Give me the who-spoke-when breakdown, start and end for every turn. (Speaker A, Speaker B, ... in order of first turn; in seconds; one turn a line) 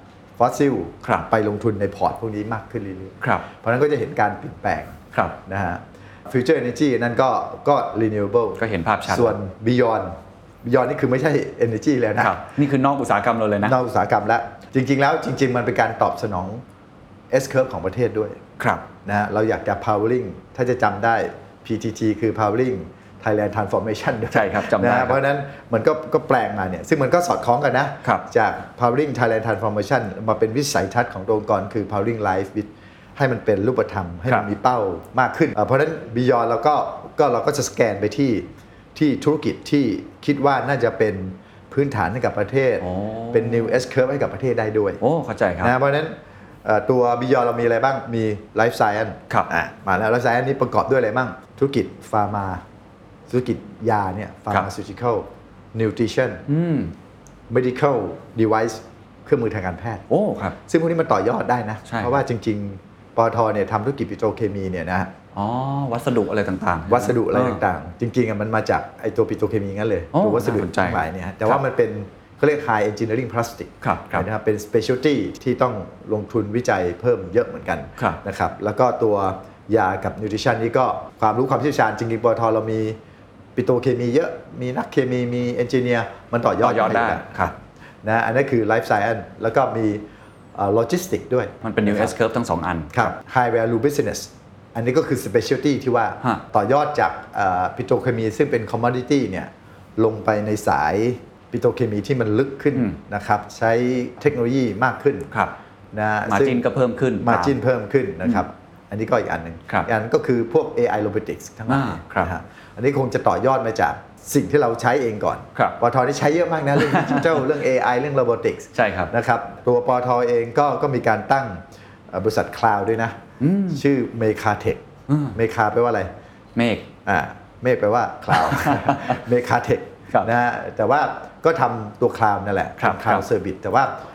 Speaker A: 0.4-12.4
Speaker B: 1.0-1.3
Speaker B: 3.2-3.5
Speaker B: 8.6-9.4
Speaker B: 12.2-13.8
Speaker A: 13.6-16.6
Speaker A: 17.3-18.4
Speaker B: 18.6-18.9
Speaker A: 19.1-45.0
Speaker B: 24.3-25.2
Speaker B: 42.8-43.8
Speaker B: 45.0-45.7
Speaker A: 45.6-52.6
Speaker A: 53.3-56.5
Speaker B: 56.5-56.9
Speaker A: 57.5-60.0
Speaker B: 60.1-60.6
Speaker A: 60.7-65.1
Speaker B: 61.9-62.2
Speaker B: 65.3-67.6
Speaker A: 66.9-83.0
Speaker B: 70.1-71.6
Speaker B: 73.8-74.3
Speaker A: 83.6-90.0
Speaker B: 86.6-87.5
Speaker A: 90.5-92.2
Speaker B: 91.6-93.2
Speaker A: 92.9-105.3
Speaker A: 105.9-106.6
Speaker B: 106.3-107.5
Speaker A: 107.2-123.2
Speaker B: 111.7-112.3
Speaker B: 116.8-117.5
Speaker B: 118.8-119.1
Speaker B: 123.4-123.8
Speaker A: 123.7-124.8
Speaker B: 125.1-125.4
Speaker A: 125.3-126.1
Speaker B: 126.5-126.9
Speaker A: 127.1-133.9
Speaker B: 128.3-129.2
Speaker B: 132.8-133.3